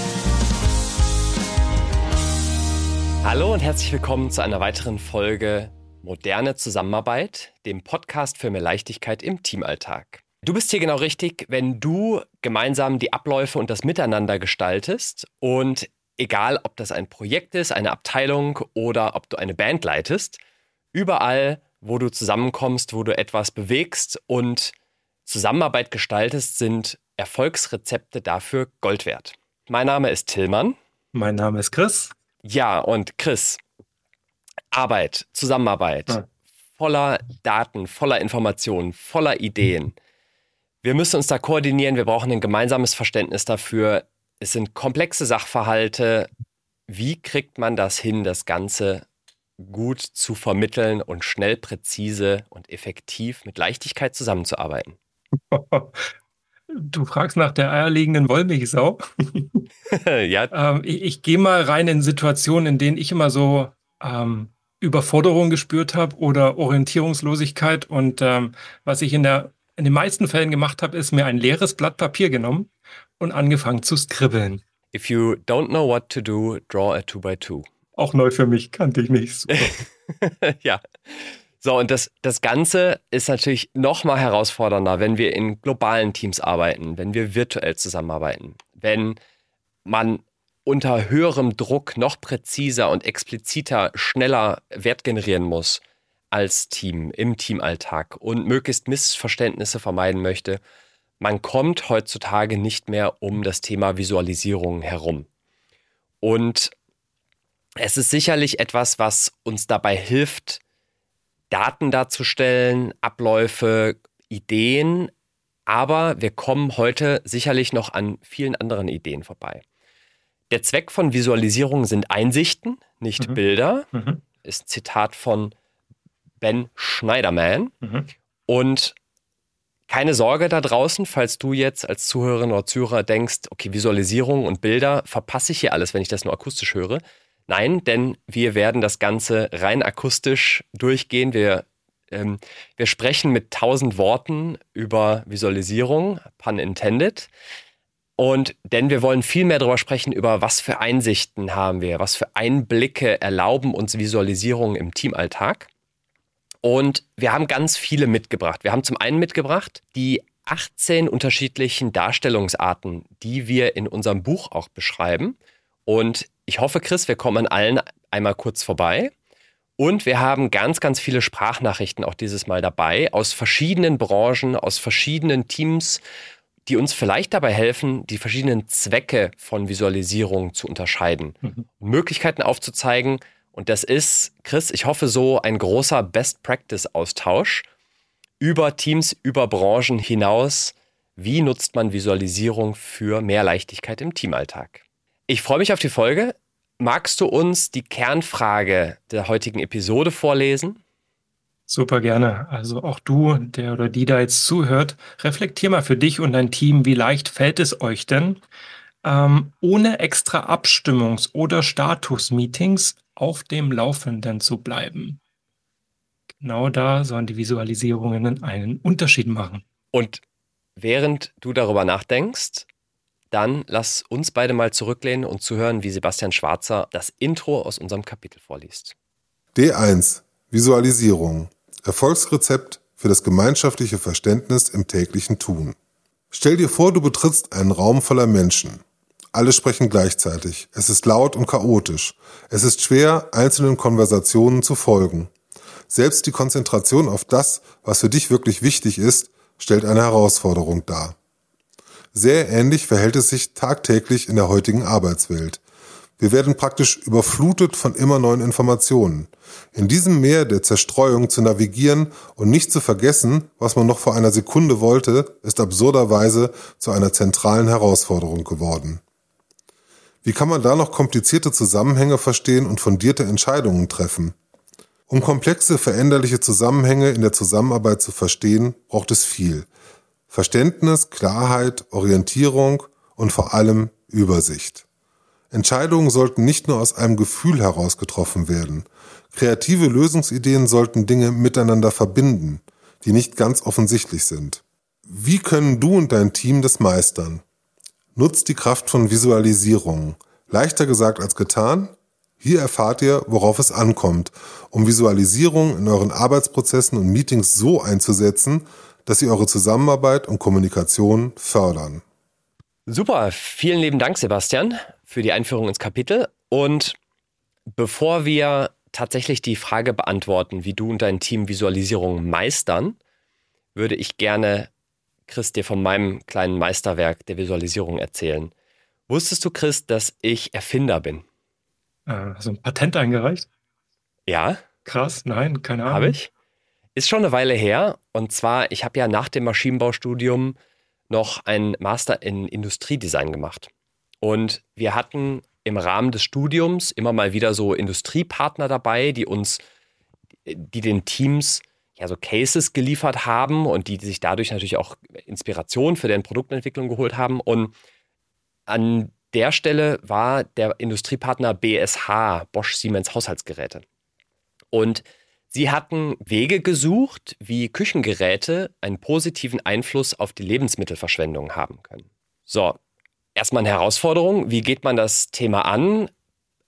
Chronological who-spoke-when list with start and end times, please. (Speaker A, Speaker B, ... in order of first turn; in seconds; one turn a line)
Speaker A: 3.2-20.4
Speaker A: 20.9-24.7
Speaker A: 25.2-30.8
Speaker B: 31.1-32.1
Speaker A: 32.4-33.6
Speaker A: 34.7-36.2
Speaker A: 36.8-39.9
Speaker A: 40.8-46.3
Speaker A: 46.9-49.0
Speaker A: 49.6-55.0
Speaker B: 55.5-56.0
Speaker B: 56.7-59.6
Speaker A: 59.9-60.5
Speaker B: 60.5-74.6
Speaker A: 74.9-77.7
Speaker B: 78.0-79.8
Speaker A: 79.5-89.2
Speaker A: 89.8-95.8
Speaker A: 96.3-100.6
Speaker A: 101.2-105.3
Speaker A: 106.2-106.7
Speaker A: 107.8-110.6
Speaker A: 111.5-115.1
Speaker A: 115.7-119.6
Speaker A: 120.5-123.9
Speaker B: 123.9-124.2
Speaker A: 124.4-125.5
Speaker A: 126.4-127.7
Speaker B: 127.8-128.1
Speaker A: 128.5-128.9
Speaker A: 129.9-147.3
Speaker A: 148.2-155.7
Speaker A: 156.6-165.3
Speaker A: 165.9-169.1
Speaker A: 169.8-176.0
Speaker A: 176.7-187.7
Speaker A: 188.4-200.8
Speaker B: 201.7-208.4
Speaker B: 209.0-215.2
Speaker B: 216.4-219.6
Speaker A: 219.9-220.2
Speaker A: 220.8-222.7
Speaker A: 223.3-228.9
Speaker C: 229.5-235.8
Speaker C: 236.3-245.3
Speaker C: 245.9-251.1
Speaker C: 252.1-255.6
Speaker C: 256.2-269.0
Speaker C: 270.2-274.3
Speaker C: 275.1-279.7
Speaker C: 280.3-284.8
Speaker C: 285.5-297.4
Speaker C: 298.1-312.0
Speaker A: 312.9-317.0
Speaker A: 317.7-323.0
Speaker A: 323.7-324.7
Speaker A: 325.3-328.5
Speaker A: 329.1-331.2
Speaker B: 332.1-333.4
Speaker A: 334.3-334.6
Speaker B: 334.8-336.1
Speaker A: 335.9-336.3
Speaker A: 336.9-340.6
Speaker A: 341.1-343.7
Speaker A: 344.2-349.6
Speaker A: 350.4-357.7
Speaker A: 358.7-363.8
Speaker A: 364.7-372.8
Speaker A: 373.4-376.1